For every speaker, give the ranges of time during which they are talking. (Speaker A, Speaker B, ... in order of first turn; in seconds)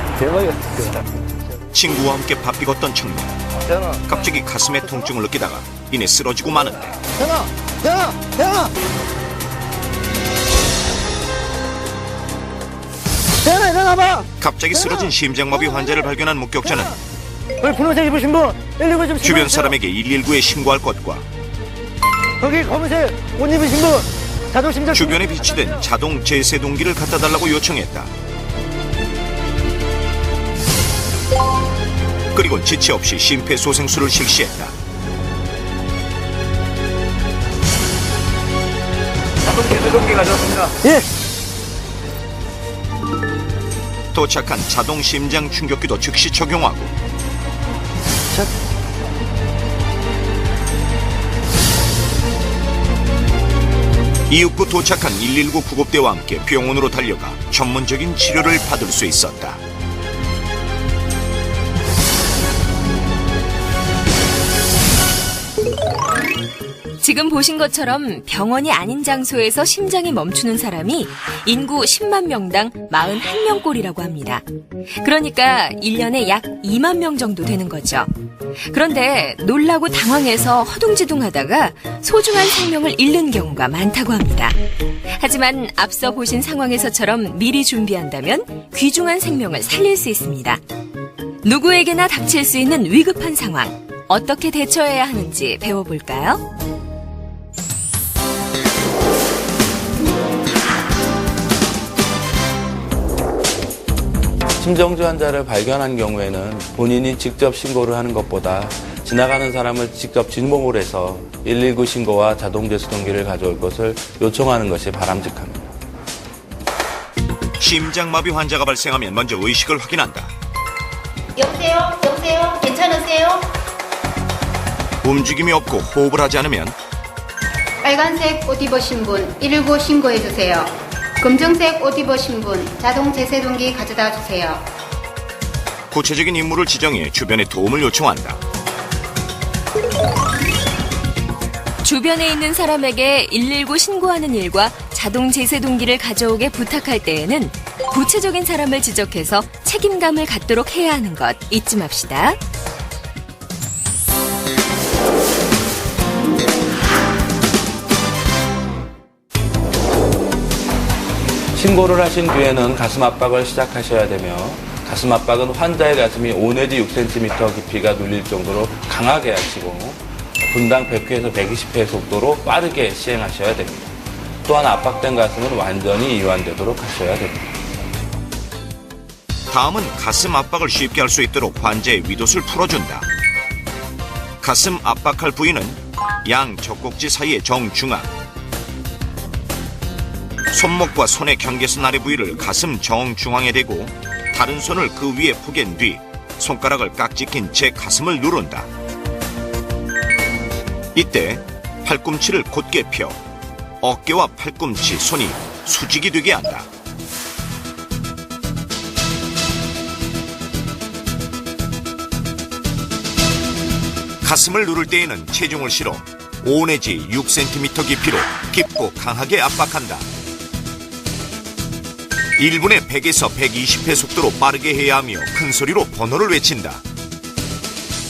Speaker A: 0.2-0.7, 13.5-14.2, 17.6-19.2, 22.4-24.9
Speaker B: 1.7-3.4, 4.0-6.9, 14.4-17.0, 19.1-21.2, 24.8-28.1, 32.3-34.7, 44.1-46.9, 54.3-59.6, 117.6-120.3, 125.0-126.8, 135.9-138.4, 179.5-183.1, 184.4-188.1, 190.5-198.7, 200.9-203.2, 203.8-206.7, 214.2-220.1, 222.4-226.8
Speaker C: 67.0-74.4, 75.0-78.1, 78.6-84.6, 85.1-90.6, 91.4-96.4, 141.8-152.4
Speaker D: 104.6-115.7, 161.5-173.9, 174.4-177.5
Speaker E: 121.4-123.5, 127.8-134.6